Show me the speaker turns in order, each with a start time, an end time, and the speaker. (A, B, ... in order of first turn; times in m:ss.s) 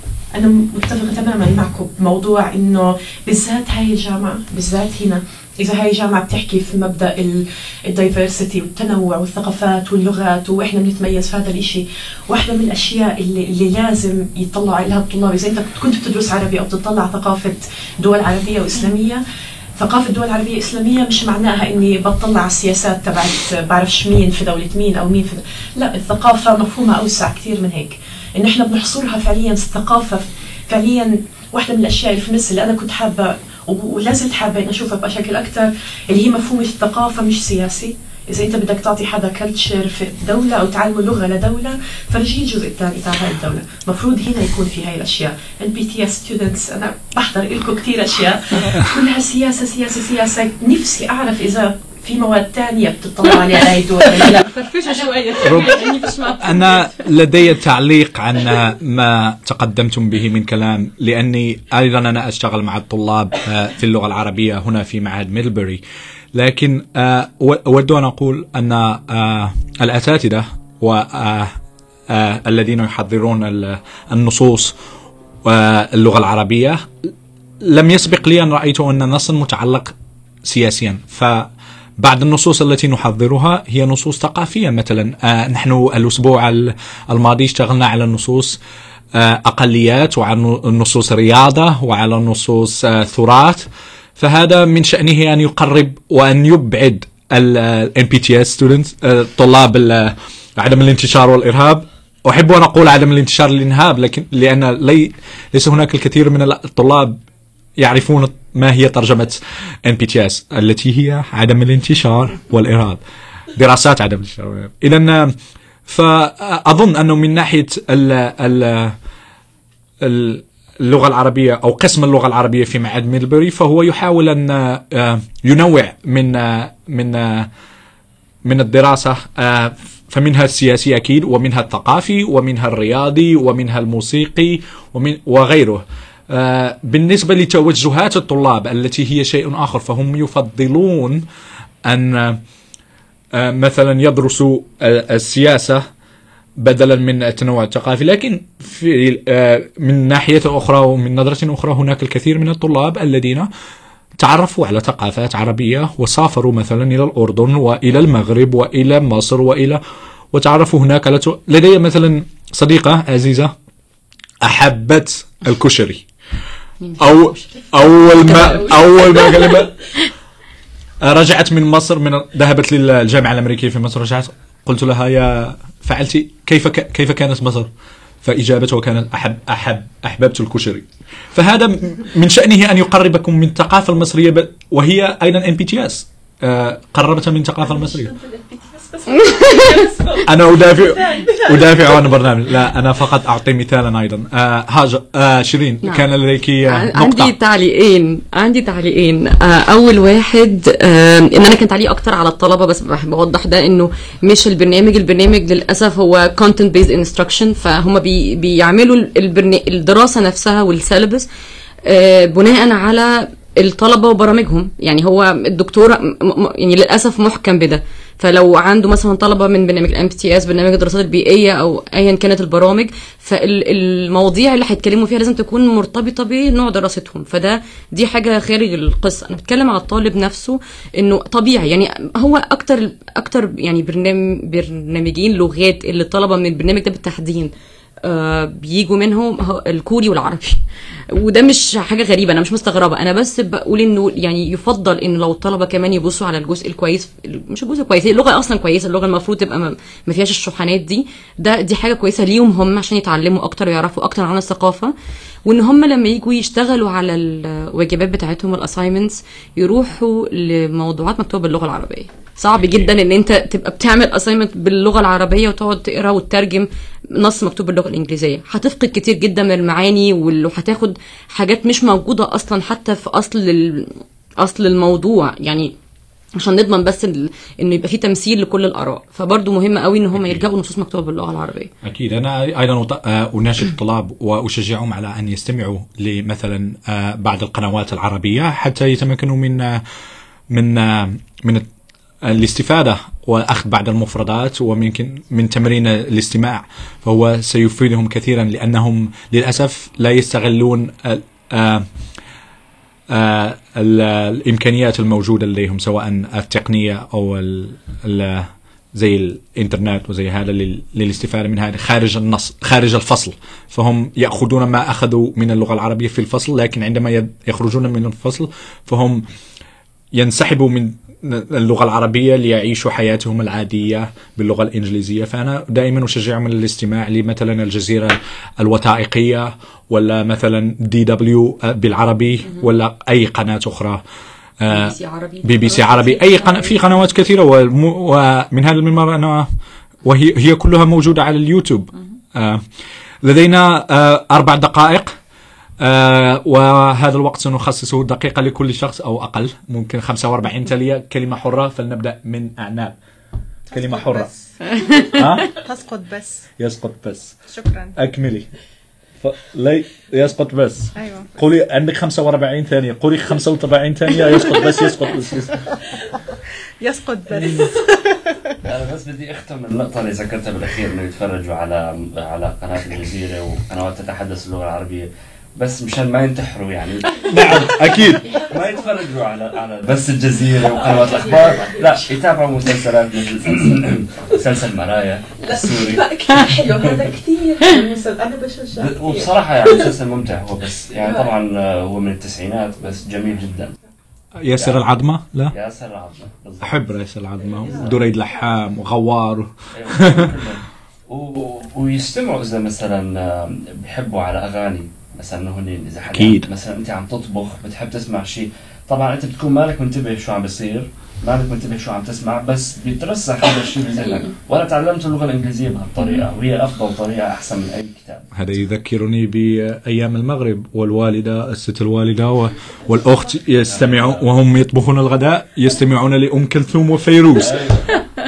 0:00.3-0:19.2 A
0:19.8-0:54.4 A
0:54.2-0:57.0 B
0:55.4-0:55.8 C
0:56.4-1:05.8 C
1:06.3-1:11.5 C
1:12.1-1:14.8 C
1:15.4-1:16.8 C
1:17.6-1:19.9 C
1:20.4-1:21.5 C
1:22.0-1:28.6 C
1:29.2-1:33.7 C
1:34.2-1:47.2 C
1:47.8-1:53.0 C
1:53.6-1:55.4 C
1:55.9-1:59.0 C
2:00.0-2:07.5 C
2:08.5-2:21.2 C
2:21.9-2:22.4 C
2:23.3-2:25.8 C
2:26.6-2:33.5 C
2:34.2-2:39.8 C
2:40.3-2:43.5 C
2:44.4-2:46.0 C
2:46.8-2:47.1 B
2:47.0-2:49.8 C
2:47.8-2:49.5 A
2:48.4-2:48.8 B
2:51.0-2:57.7 C
2:58.2-3:08.1 C
3:07.6-3:12.3 A
3:09.3-3:09.6 B
3:10.2-3:17.3 C
3:16.7-3:31.3 B
3:31.9-3:57.5 B
3:58.0-4:00.6 B
4:01.1-4:14.9 B
4:15.4-4:35.7 B
4:36.4-4:41.7 B
4:41.8-4:49.8 C
4:50.5-4:51.7 C
4:52.2-5:01.9 C
5:03.1-5:19.2 C
5:20.1-5:34.0 C
5:34.6-5:39.5 C
5:34.7-5:36.9 B
5:40.0-5:42.6 C
5:43.2-5:45.1 C
5:45.8-5:53.0 C
5:53.7-5:54.3 C
5:53.7-5:56.5 D
5:55.2-5:55.5 C
5:56.6-5:57.4 C
5:57.5-5:58.0 D
5:58.0-5:58.5 C
5:59.2-6:05.6 C
6:01.0-6:01.4 D
6:06.3-6:08.6 D
6:08.6-6:15.1 E
6:15.6-6:26.1 E
6:17.2-6:18.3 C
6:18.2-6:18.9 A
6:20.6-6:22.2 A
6:25.4-6:29.9 A
6:28.8-6:33.8 E
6:31.0-6:31.3 A
6:34.4-6:35.5 C
6:34.6-6:34.9 E
6:35.5-6:37.0 E
6:36.6-6:40.4 C
6:37.6-6:38.0 E
6:39.7-6:58.3 E
6:46.0-6:46.5 C
6:58.4-7:07.7 C
7:03.5-7:04.3 E
7:07.4-7:08.0 E